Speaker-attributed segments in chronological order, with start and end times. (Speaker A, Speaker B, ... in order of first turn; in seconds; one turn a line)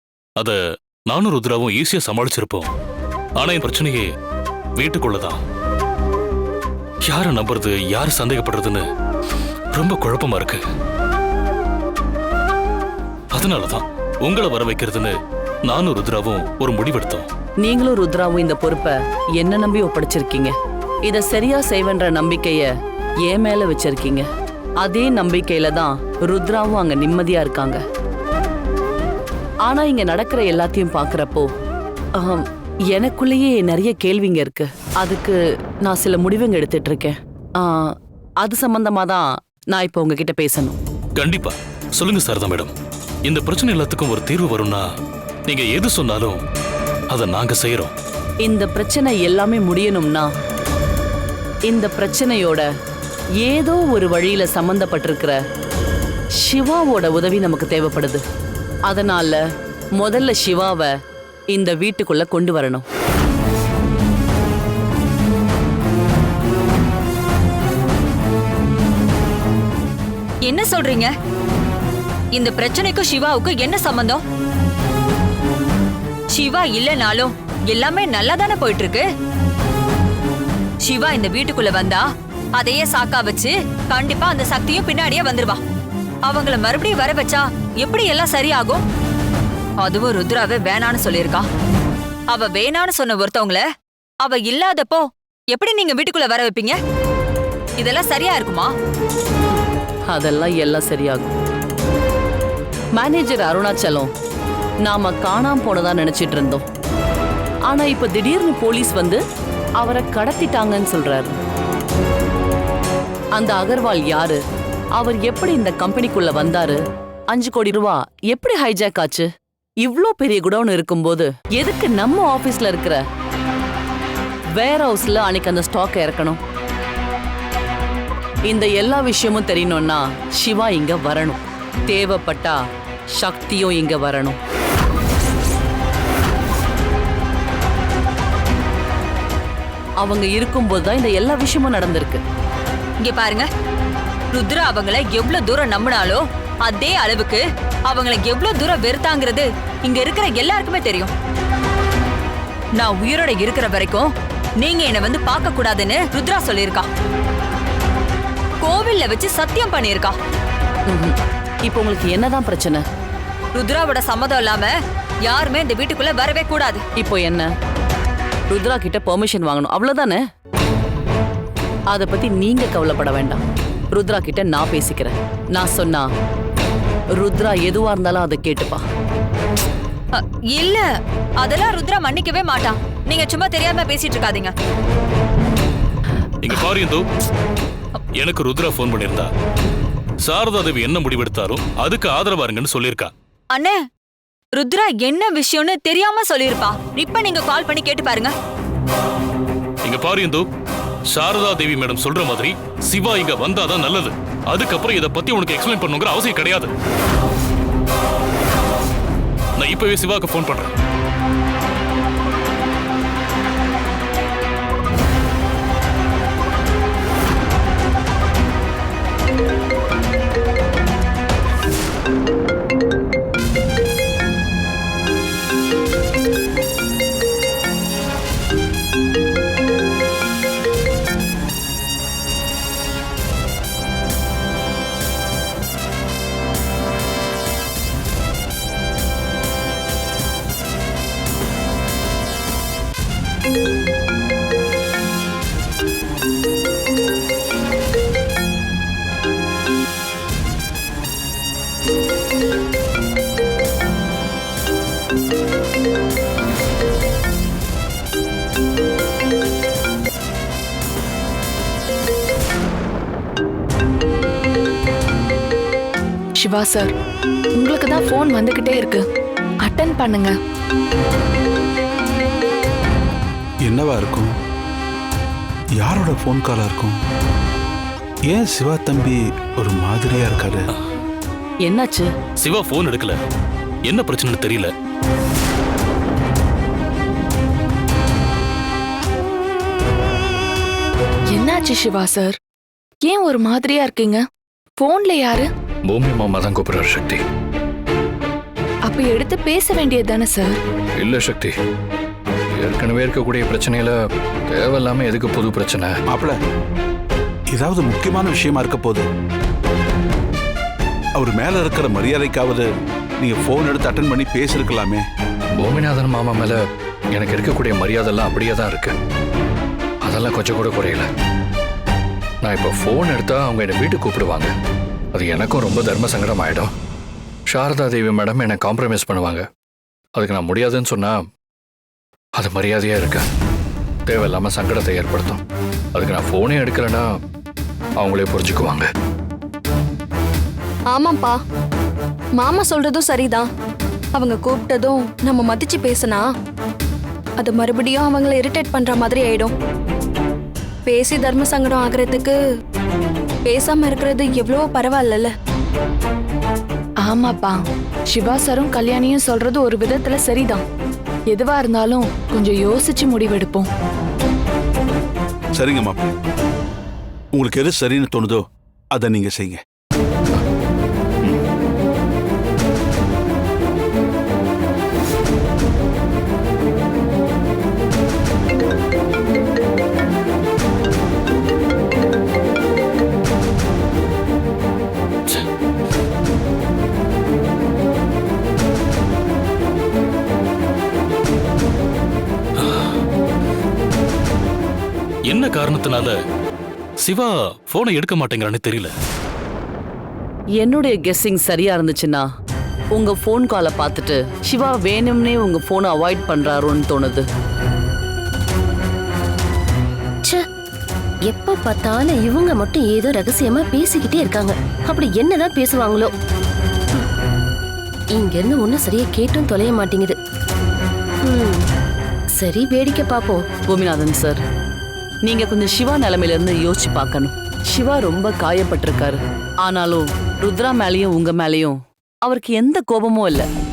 Speaker A: 0.4-2.7
Speaker A: 3.4-4.1
Speaker A: 4.8-5.4
Speaker A: 7.1-8.8
Speaker A: 9.7-10.6
Speaker A: 13.3-15.2
Speaker A: 15.7-17.3
Speaker B: 17.6-20.6
Speaker B: 21.1-22.7
Speaker B: 23.3-24.3
Speaker B: 24.8-27.8
Speaker B: 29.7-31.5
Speaker B: 32.2-40.8
Speaker A: 41.2-42.7
Speaker A: 43.3-44.8
Speaker A: 45.5-46.4
Speaker A: 47.1-47.9
Speaker B: 48.4-50.3
Speaker B: 51.7-52.7
Speaker B: 53.4-55.4
Speaker B: 56.4-58.2
Speaker B: 58.9-59.4
Speaker B: 60.0-60.9
Speaker B: 61.5-62.9
Speaker C: 70.5-71.1
Speaker C: 72.3-74.2
Speaker C: 76.3-79.0
Speaker C: 80.8-82.0
Speaker C: 82.6-85.6
Speaker C: 86.3-88.8
Speaker C: 89.8-91.5
Speaker C: 92.3-93.6
Speaker C: 94.2-96.8
Speaker C: 97.8-98.7
Speaker B: 100.1-101.3
Speaker B: 103.0-104.1
Speaker B: 104.8-106.7
Speaker B: 107.7-109.2
Speaker B: 109.8-111.4
Speaker B: 113.4-114.4
Speaker B: 115.0-119.3
Speaker B: 119.8-123.0
Speaker B: 124.6-126.4
Speaker B: 128.5-132.6
Speaker B: 133.2-134.4
Speaker B: 140.0-142.2
Speaker C: 143.0-143.5
Speaker C: 144.3-151.1
Speaker C: 152.8-156.9
Speaker C: 158.6-160.2
Speaker B: 160.9-162.8
Speaker C: 163.6-164.7
Speaker C: 165.3-166.8
Speaker B: 167.0-167.5
Speaker B: 168.5-170.2
Speaker B: 171.9-173.4
Speaker B: 173.9-176.1
Speaker B: 177.2-178.8
Speaker C: 180.1-180.8
Speaker C: 181.4-184.5
Speaker A: 186.4-187.0
Speaker A: 188.2-189.3
Speaker A: 190.2-193.1
Speaker C: 193.5-193.8
Speaker C: 194.6-198.3
Speaker A: 199.8-200.4
Speaker A: 201.1-206.7
Speaker A: 209.6-210.7
Speaker D: 266.4-266.9
Speaker D: 267.6-269.1
Speaker D: 269.6-270.4
Speaker E: 273.7-274.3
Speaker E: 275.8-277.0
Speaker E: 278.3-280.7
Speaker B: 281.7-282.1
Speaker A: 282.4-283.2
Speaker A: 283.9-284.7
Speaker D: 291.3-292.4
Speaker D: 293.1-294.2
Speaker D: 294.8-295.5
Speaker F: 295.9-297.2
Speaker D: 298.9-300.6
Speaker F: 301.0-301.5
Speaker F: 302.5-304.0
Speaker F: 304.5-306.0
Speaker E: 306.1-306.4
Speaker E: 307.5-309.0
Speaker E: 311.2-312.7
Speaker E: 313.2-315.0
Speaker F: 315.6-316.6
Speaker F: 317.1-318.9
Speaker F: 320.0-321.1
Speaker F: 322.4-324.5
Speaker F: 325.1-326.7
Speaker F: 327.5-329.5
Speaker F: 330.2-331.2
Speaker F: 332.4-333.3
Speaker F: 334.1-335.4
Speaker F: 335.9-337.1
Speaker F: 338.0-338.9
Speaker G: 340.9-341.4
Speaker G: 342.4-343.5
Speaker G: 344.1-346.3
Speaker G: 347.4-349.5
Speaker G: 350.9-352.4
Speaker G: 353.4-355.3
Speaker D: 357.0-360.6
Speaker D: 361.3-363.7
Speaker E: 365.6-366.0
Speaker E: 367.3-368.4
Speaker E: 368.9-369.6
Speaker A: 392.6-392.9
Speaker A: 395.3-396.2
Speaker A: 397.0-398.9
Speaker B: 400.6-402.2
Speaker B: 403.0-407.3
Speaker H: 411.3-416.1
Speaker H: 418.1-420.2
Speaker H: 421.2-421.6
Speaker H: 422.4-423.4
Speaker B: 423.7-424.4
Speaker B: 425.3-433.5